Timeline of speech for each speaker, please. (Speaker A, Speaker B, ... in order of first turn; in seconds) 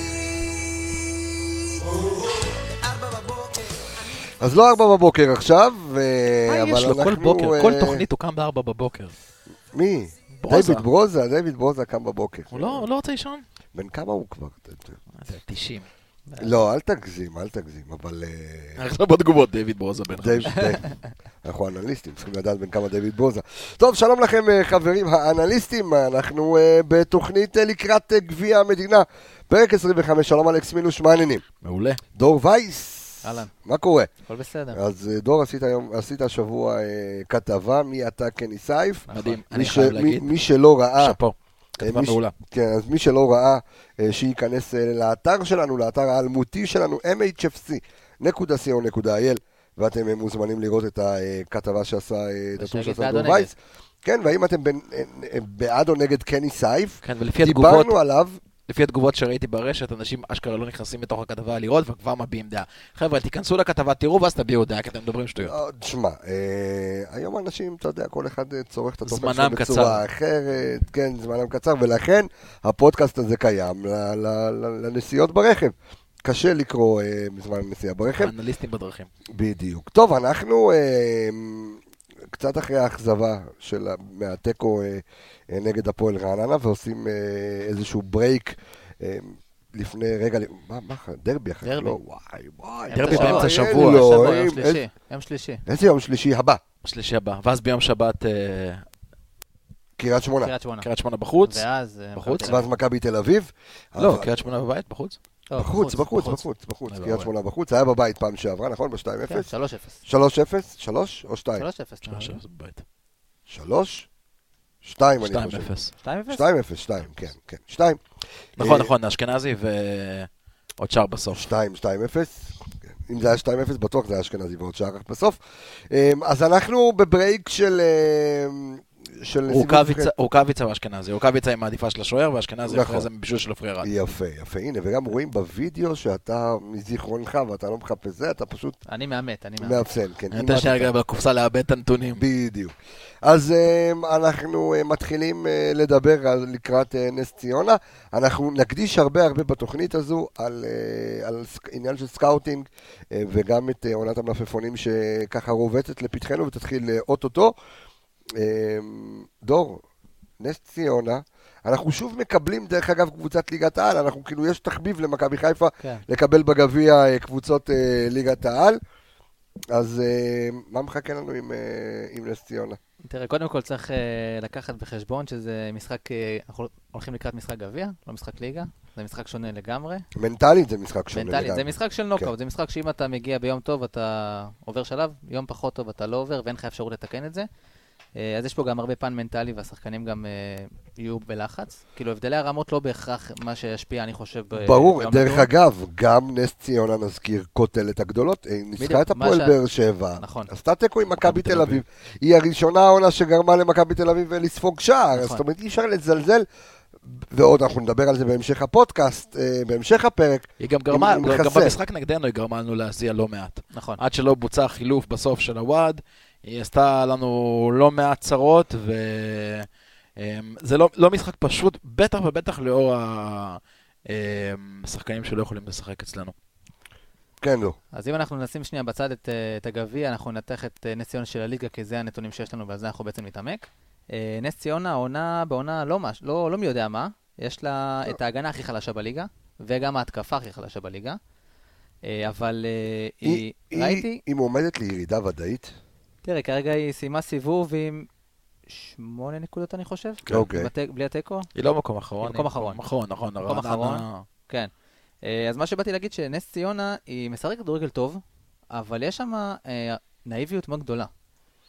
Speaker A: 4.4-8.0, 9.7-12.8, 13.7-15.0, 16.4-18.8, 20.2-20.9, 21.4-31.4, 32.1-34.1, 34.7-41.2, 41.8-58.4, 65.4-78.3, 79.3-81.8, 82.3-94.8, 95.7-96.6, 100.0-100.5, 102.5-104.3, 105.6-109.5, 110.0-111.7, 113.5-114.1, 114.8-115.7, 116.3-118.0, 118.6-118.9, 121.3-125.4, 125.9-130.1, 132.7-133.1, 133.8-138.8, 139.6-140.9, 142.1-157.5, 158.3-159.8, 160.4-168.8, 169.7-172.8, 180.2-182.3, 194.6-206.4, 207.2-211.8, 227.4-227.8, 243.2-245.7, 250.3-250.7
Speaker B: 6.5-9.1, 10.4-10.8, 12.5-13.4, 15.2-15.9, 18.8-20.7, 31.6-32.0, 39.1-40.3, 41.0-42.3, 57.0-57.9, 58.7-65.5, 69.0-70.0, 78.1-79.1, 92.9-94.1, 96.8-98.8, 100.8-101.6, 102.2-102.6, 104.0-105.2, 106.9-107.3, 112.0-112.8, 115.2-115.9, 118.6-121.5, 129.5-133.9, 140.3-142.2, 201.2-201.8, 210.6-226.3, 251.5-254.3
Speaker C: 16.3-16.6, 33.2-33.5, 34.3-34.8, 39.1-39.4, 52.6-53.5, 91.6-92.0, 92.9-95.6, 100.4-100.9, 101.4-102.7, 105.5-106.4, 109.2-110.0, 111.6-112.4, 116.0-116.4, 138.9-139.9, 173.1-180.0, 181.1-187.5, 188.2-195.5, 198.8-199.6, 200.2-200.5, 205.1-205.4, 213.7-214.0, 227.9-241.2, 242.0-244.2, 246.2-248.1, 248.7-251.5, 252.2-252.8, 253.4-254.7, 255.2-261.1